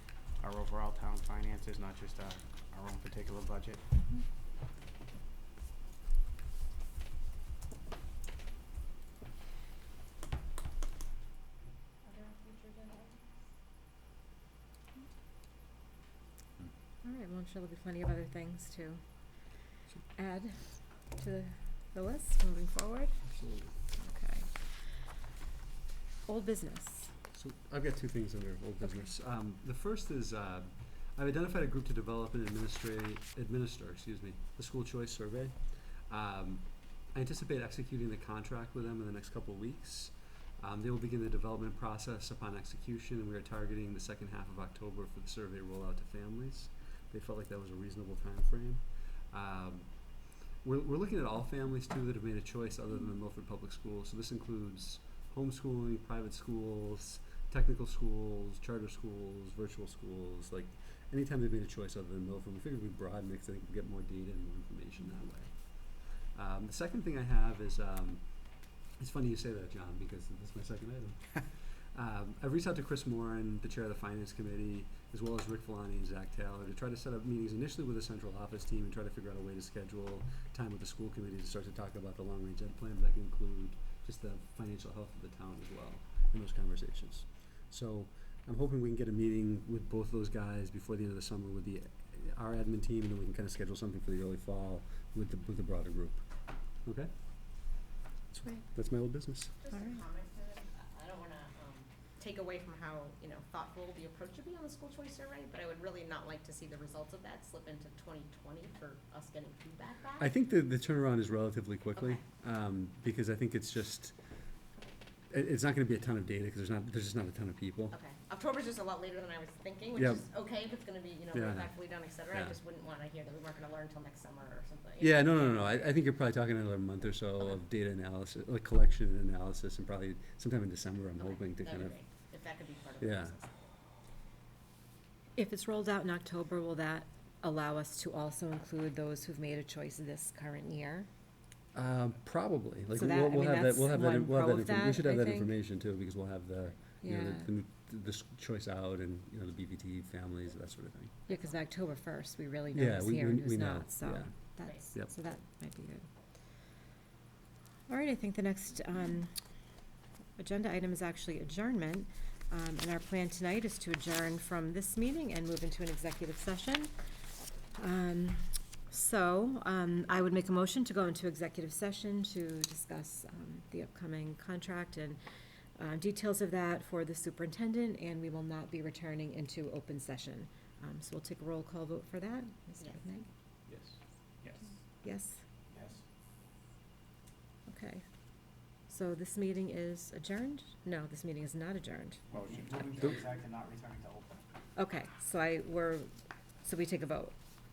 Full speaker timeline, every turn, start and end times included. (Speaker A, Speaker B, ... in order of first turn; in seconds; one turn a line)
Speaker A: 0.4-3.8
Speaker B: 12.1-13.2
Speaker C: 17.0-19.0
Speaker C: 20.1-23.2
Speaker D: 23.2-23.8
Speaker C: 23.9-24.5
Speaker C: 26.2-27.1
Speaker D: 27.3-50.0
Speaker D: 50.6-96.2
Speaker D: 96.8-97.1
Speaker D: 98.3-99.5
Speaker B: 99.6-110.3
Speaker C: 99.7-100.0
Speaker D: 110.2-114.1
Speaker B: 112.0-112.2
Speaker D: 115.3-117.9
Speaker B: 117.9-125.9
Speaker D: 119.9-120.2
Speaker D: 121.3-122.6
Speaker D: 125.0-132.0
Speaker B: 131.2-133.6
Speaker D: 133.0-133.3
Speaker C: 135.3-141.1
Speaker D: 141.7-151.1
Speaker C: 142.9-145.5
Speaker C: 147.0-147.5
Speaker B: 151.3-151.6
Speaker C: 151.3-156.1
Speaker D: 152.7-155.1
Speaker B: 154.6-154.9
Speaker C: 157.9-159.3
Speaker C: 160.4-166.9
Speaker C: 167.8-175.2
Speaker C: 175.8-183.3
Speaker C: 185.0-185.4
Speaker A: 185.7-186.0
Speaker C: 187.7-188.0
Speaker C: 188.9-192.2
Speaker A: 192.3-194.4
Speaker C: 194.8-196.1
Speaker C: 196.6-197.3